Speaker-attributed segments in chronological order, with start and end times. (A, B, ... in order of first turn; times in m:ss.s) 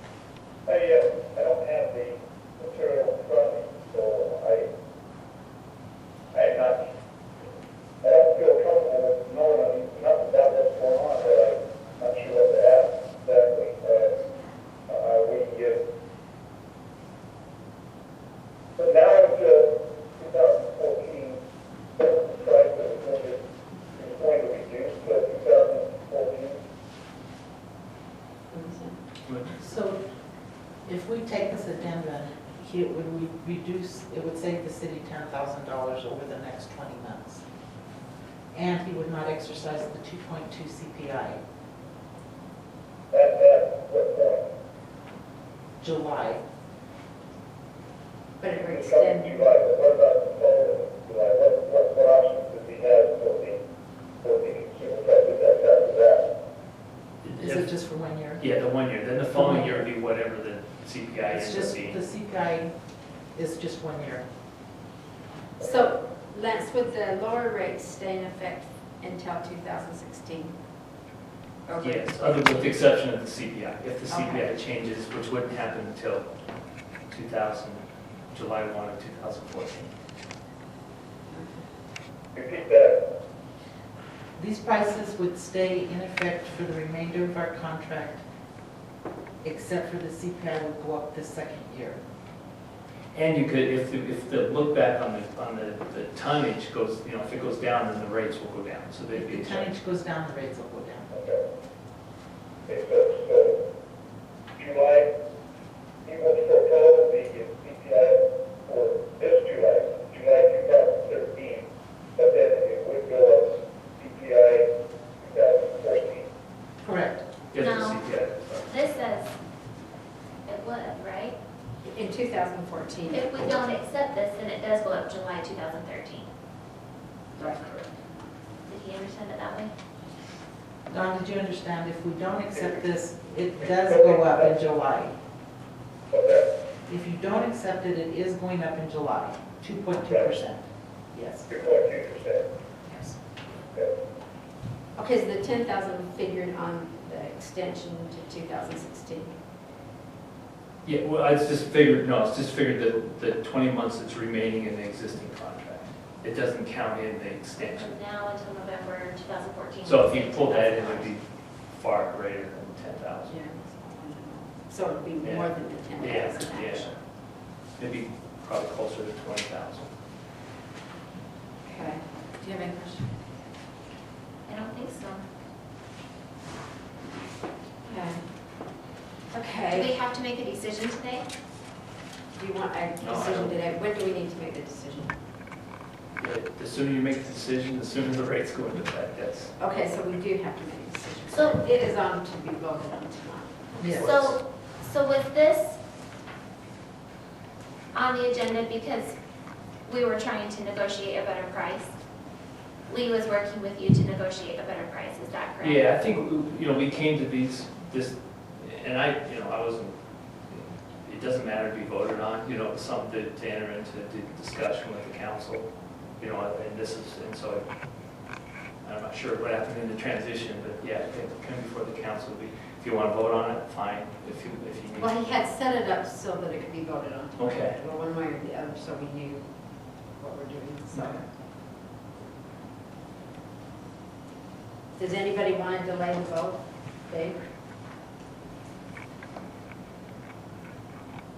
0:00.7-0:04.7 A
0:06.3-0:06.8 A
0:08.0-0:14.1 A
0:14.9-0:15.8 A
0:18.8-0:21.4 A
0:22.0-0:23.4 A
0:23.9-0:26.6 A
0:28.5-0:29.0 B
0:29.3-0:29.6 C
0:29.6-0:30.0 D
0:30.8-0:37.4 D
0:38.5-0:41.4 D
0:43.1-0:44.4 A
0:45.8-0:46.4 D
0:48.4-0:49.4 B
0:48.6-0:53.6 A
0:54.2-0:56.2 A
0:57.2-0:57.7 C
0:57.4-0:58.4 D
0:58.4-1:02.0 C
0:59.3-0:59.9 D
1:01.3-1:02.7 D
1:03.4-1:04.3 D
1:05.6-1:10.6 B
1:11.7-1:12.8 B
1:11.8-1:16.3 C
1:14.1-1:14.5 B
1:17.1-1:19.9 C
1:21.3-1:21.6 B
1:22.3-1:23.0 A
1:24.4-1:28.2 D
1:29.4-1:32.0 D
1:33.1-1:39.7 C
1:39.1-1:41.1 D
1:41.1-1:41.4 A
1:42.7-1:43.6 A
1:44.6-1:45.1 A
1:46.0-1:54.7 A
1:55.2-1:56.3 A
1:56.8-1:57.2 D
1:57.5-1:58.8 C
1:57.5-1:59.3 E
2:00.5-2:01.4 E
2:01.8-2:03.6 B
2:03.1-2:06.3 E
2:07.4-2:07.8 E
2:08.7-2:09.7 E
2:10.9-2:15.1 D
2:12.5-2:12.9 A
2:13.7-2:14.6 A
2:16.1-2:16.5 A
2:16.9-2:20.6 D
2:20.0-2:20.3 A
2:21.1-2:21.5 D
2:21.5-2:22.5 A
2:25.0-2:29.3 B
2:30.8-2:37.9 C
2:37.7-2:41.2 E
2:39.8-2:43.4 C
2:43.3-2:47.0 B
2:45.2-2:47.0 C
2:47.8-2:49.9 C
2:51.6-2:53.2 B
2:54.5-2:55.2 E
2:57.9-2:58.2 B
2:59.3-2:59.9 B
2:59.7-3:01.3 E
3:02.4-3:05.1 B
3:03.0-3:03.6 C
3:06.2-3:09.6 C
3:09.6-3:14.1 B
3:11.3-3:11.6 E
3:13.8-3:14.1 D
3:14.0-3:14.4 C
3:14.0-3:15.8 E
3:17.9-3:19.2 E
3:19.9-3:22.0 E
3:22.9-3:25.9 E
3:25.6-3:30.0 C
3:30.5-3:37.6 C
3:38.8-3:45.2 C
3:45.0-3:49.5 B
3:47.4-3:47.8 C
3:50.2-3:51.2 B
3:50.9-3:51.2 C
3:55.0-3:57.4 B